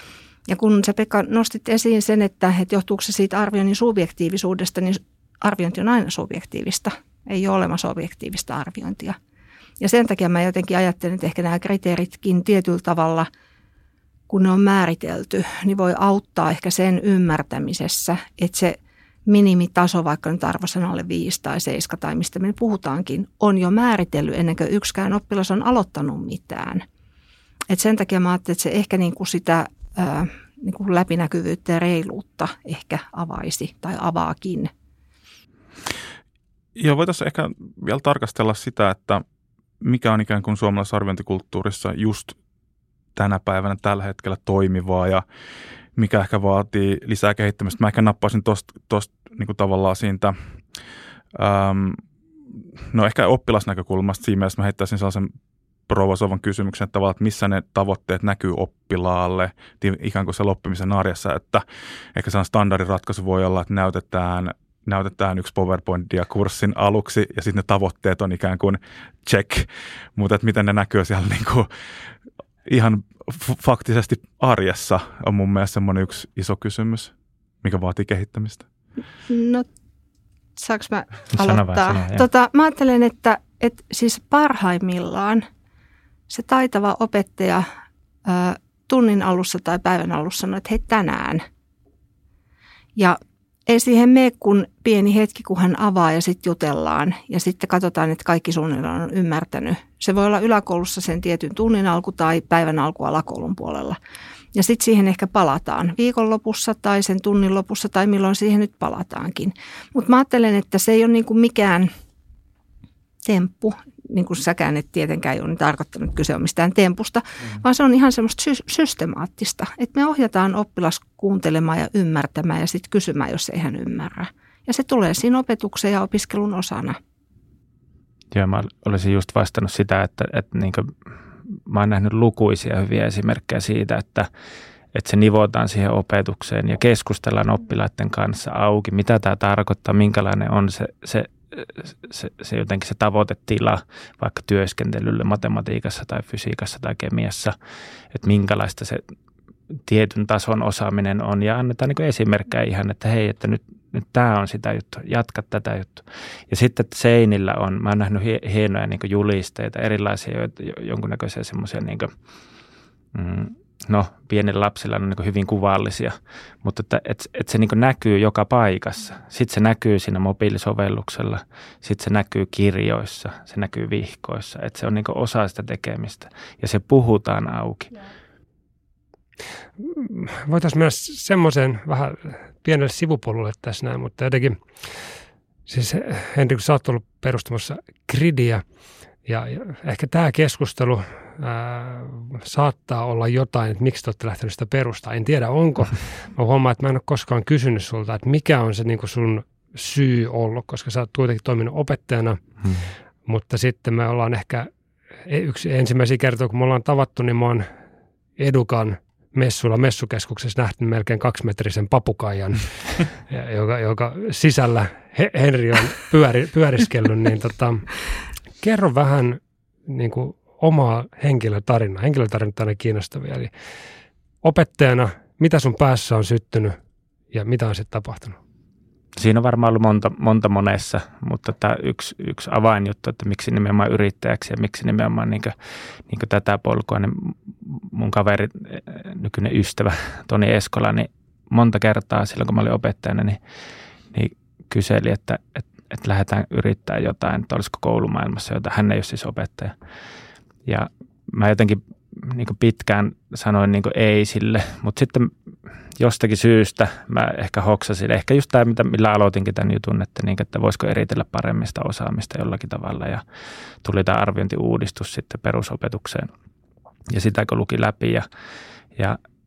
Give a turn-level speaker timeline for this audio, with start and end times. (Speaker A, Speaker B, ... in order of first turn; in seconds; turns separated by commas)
Speaker A: 0.5-9.2, Speaker A: 9.8-13.3, Speaker A: 14.3-18.8, Speaker A: 19.3-26.8, Speaker A: 27.7-34.7, Speaker B: 36.7-39.2, Speaker B: 39.8-42.4, Speaker B: 43.1-45.2, Speaker B: 46.0-50.4, Speaker B: 51.3-52.0, Speaker B: 52.5-55.3, Speaker B: 55.9-71.7, Speaker B: 72.7-78.7, Speaker A: 79.3-79.7, Speaker A: 80.6-85.4, Speaker C: 81.3-82.3, Speaker A: 86.3-87.7, Speaker A: 88.2-91.4, Speaker A: 93.0-104.0, Speaker A: 104.5-111.9, Speaker A: 113.2-127.0, Speaker C: 128.3-130.9, Speaker C: 131.5-134.3, Speaker C: 134.9-147.5, Speaker C: 148.1-149.0, Speaker C: 149.7-162.1, Speaker C: 163.1-178.0, Speaker D: 179.8-188.7, Speaker D: 189.2-202.6, Speaker C: 202.6-202.9, Speaker D: 203.2-204.7, Speaker D: 205.2-207.7, Speaker D: 208.4-217.9, Speaker D: 218.6-223.5, Speaker D: 224.4-226.8, Speaker D: 227.3-228.4, Speaker C: 229.2-235.5, Speaker C: 236.1-243.4, Speaker C: 244.1-249.8, Speaker C: 250.7-255.3, Speaker C: 255.9-263.2, Speaker C: 263.8-266.3, Speaker C: 267.1-268.2